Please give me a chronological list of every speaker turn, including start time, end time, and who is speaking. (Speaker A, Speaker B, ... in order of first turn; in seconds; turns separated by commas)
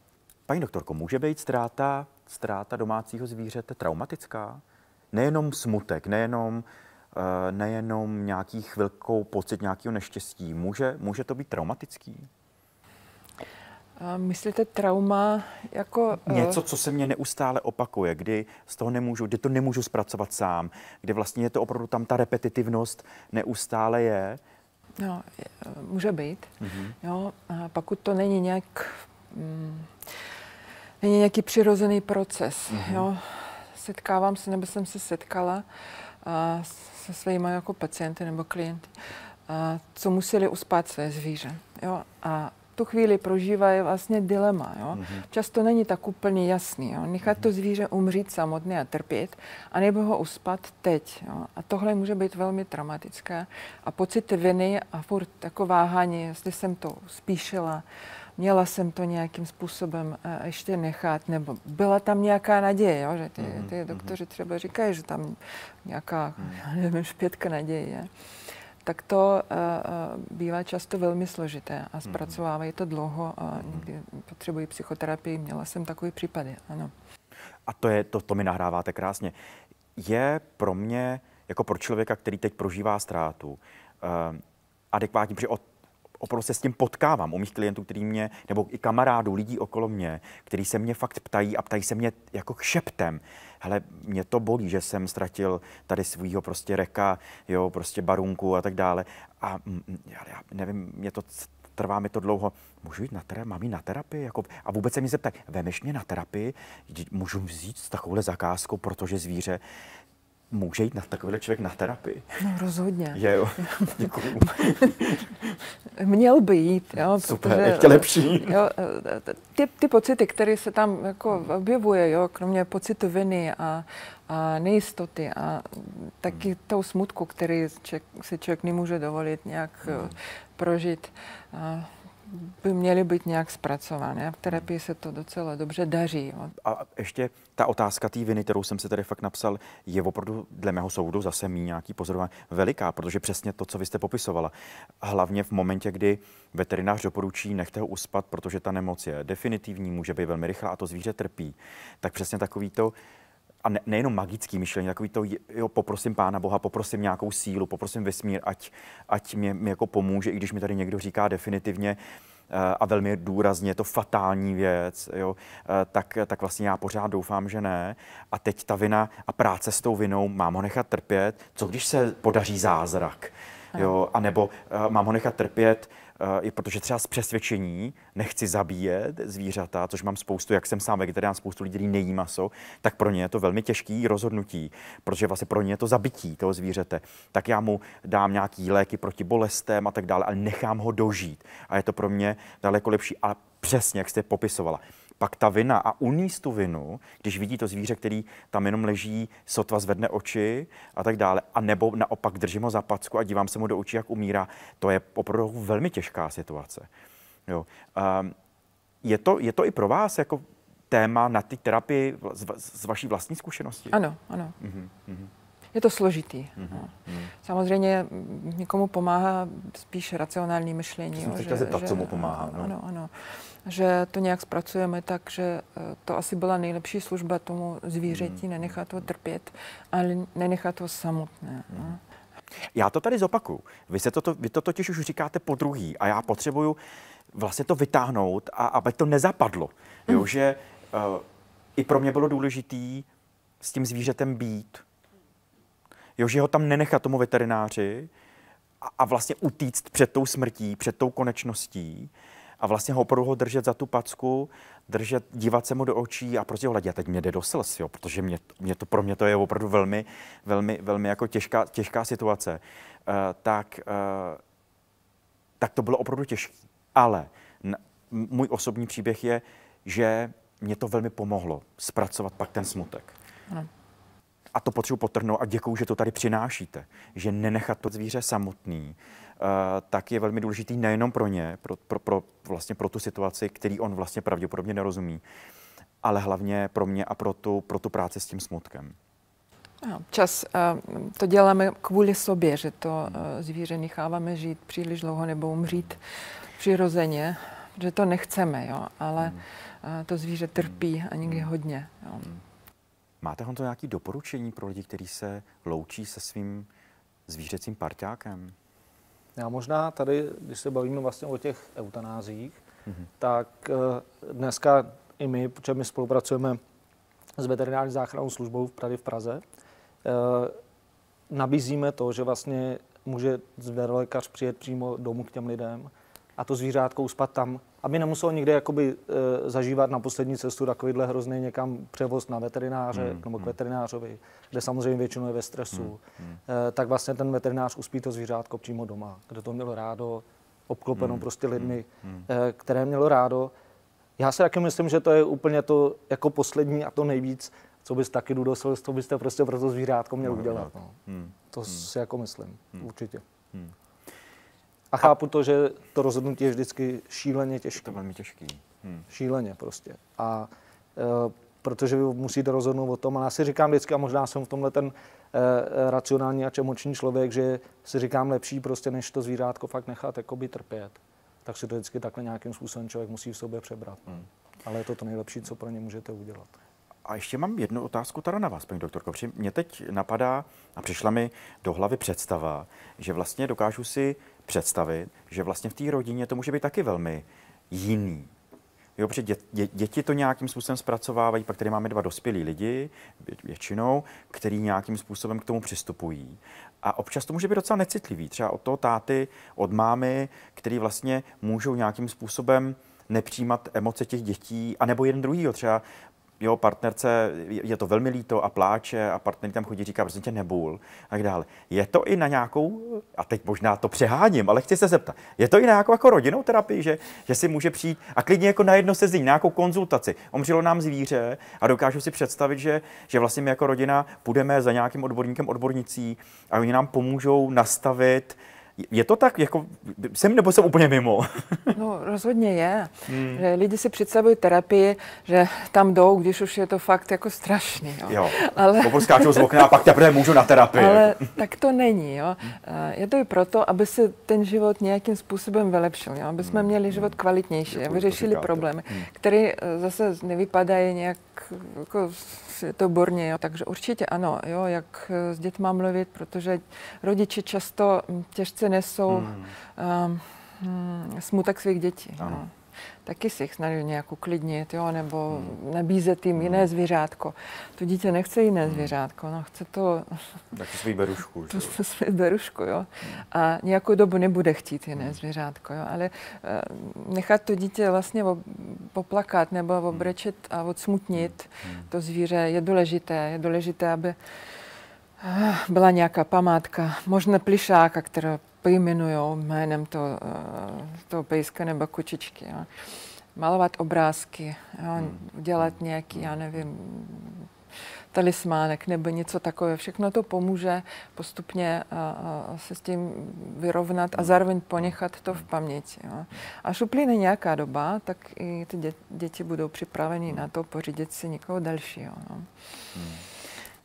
Speaker A: 0.5-12.3, Speaker B: 14.0-16.6, Speaker A: 16.3-24.4, Speaker B: 25.0-30.3, Speaker A: 26.6-26.9, Speaker B: 31.0-39.0, Speaker A: 32.7-33.1, Speaker B: 39.5-57.8, Speaker B: 58.4-68.1, Speaker A: 63.4-64.1, Speaker B: 68.8-76.9, Speaker A: 72.1-72.4, Speaker A: 73.6-73.9, Speaker A: 77.7-79.3, Speaker A: 80.0-85.6, Speaker A: 86.2-109.6, Speaker A: 110.5-112.4, Speaker B: 112.4-115.1, Speaker A: 113.1-115.3, Speaker B: 115.9-136.6, Speaker A: 117.2-118.6, Speaker A: 129.8-130.1, Speaker A: 136.6-152.9, Speaker A: 153.6-162.0, Speaker A: 162.5-206.9, Speaker A: 207.5-208.3, Speaker A: 209.0-213.9, Speaker B: 213.9-214.6, Speaker A: 214.6-215.3, Speaker B: 215.7-232.0, Speaker A: 216.6-217.3, Speaker A: 221.2-222.7, Speaker A: 228.1-228.4, Speaker A: 232.7-236.8, Speaker A: 237.3-241.2, Speaker A: 241.8-243.1, Speaker A: 243.6-244.8, Speaker A: 246.2-248.1, Speaker A: 248.8-264.4, Speaker A: 265.6-273.1, Speaker A: 274.5-285.2, Speaker A: 286.0-289.0, Speaker B: 289.8-296.0, Speaker B: 296.6-302.3, Speaker A: 303.2-306.7, Speaker A: 307.3-308.6, Speaker C: 309.4-312.6, Speaker C: 313.2-316.6, Speaker C: 317.4-319.4, Speaker C: 320.0-320.6, Speaker C: 321.3-343.5, Speaker A: 332.9-333.5, Speaker A: 341.0-341.8, Speaker C: 344.2-351.0, Speaker A: 350.2-351.3, Speaker C: 351.5-353.2, Speaker C: 354.9-358.0, Speaker A: 357.9-359.1, Speaker C: 359.1-376.5, Speaker A: 377.1-388.3, Speaker A: 389.0-405.8, Speaker A: 406.4-431.8, Speaker B: 431.7-439.7, Speaker A: 433.1-433.4, Speaker A: 438.1-441.2, Speaker B: 440.7-462.5, Speaker A: 446.4-447.1, Speaker A: 447.7-449.1, Speaker A: 459.1-459.5, Speaker A: 462.2-462.4, Speaker B: 463.1-470.4, Speaker A: 466.4-466.7, Speaker A: 468.6-468.9, Speaker A: 470.5-471.8, Speaker B: 471.5-484.1, Speaker A: 481.2-481.8, Speaker B: 485.2-497.5, Speaker B: 498.1-512.5, Speaker A: 513.0-513.2